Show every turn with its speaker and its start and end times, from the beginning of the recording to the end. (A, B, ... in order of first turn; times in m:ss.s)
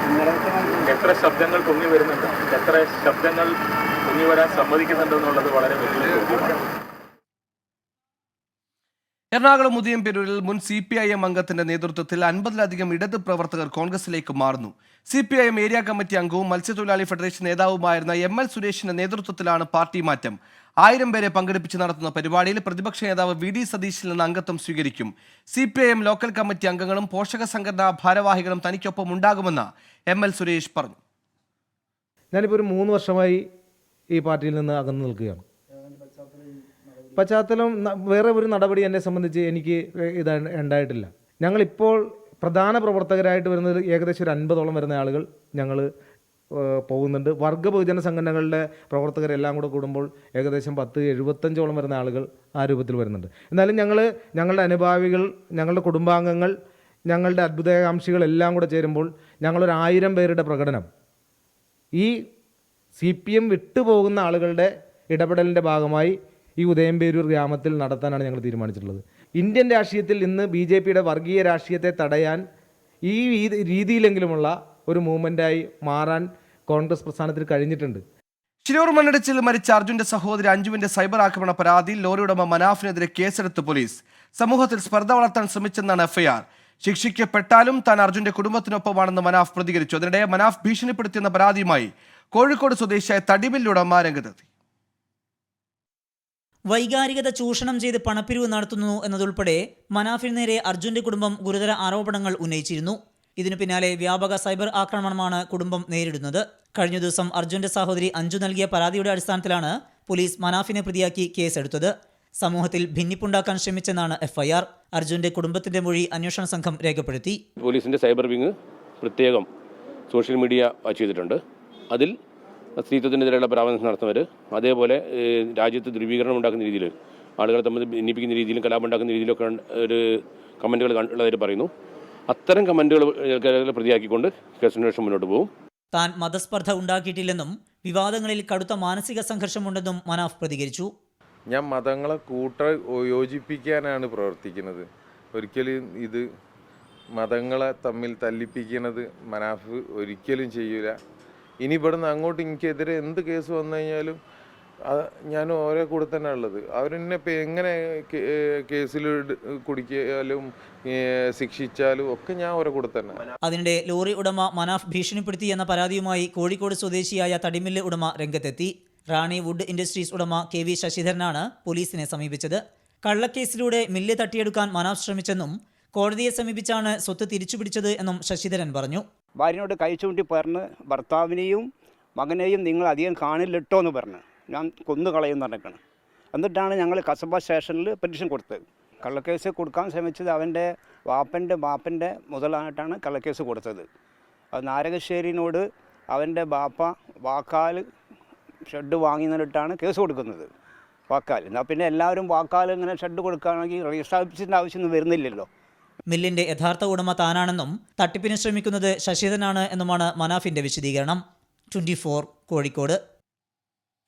0:00.3-0:00.6 A
0:00.8-0:03.5 B
0:04.0-0:06.6 B
0:09.3-0:31.0 C
0:32.3-0:33.4 D
0:34.2-0:35.4 D
0:37.2-0:45.9 D
0:46.6-0:56.5 D
0:57.1-1:00.8 D
1:03.0-1:12.4 D
1:13.1-1:18.0 D
1:18.6-1:34.4 C
1:36.7-1:57.4 E
1:57.6-1:59.4 F
2:00.1-2:01.4 F
2:02.8-2:11.7 F
2:12.3-2:15.5 F
2:15.9-2:20.9 E
2:21.5-2:26.2 G
2:27.2-2:31.0 G
2:31.6-2:34.2 G
2:34.8-2:43.2 G
2:43.4-2:59.0 E
2:59.4-3:01.6 A
3:02.2-3:05.8 A
3:06.3-3:13.9 A
3:14.6-3:17.8 A
3:18.7-3:20.5 A
3:21.1-3:25.5 A
3:26.1-3:31.2 E
3:31.7-3:33.0 E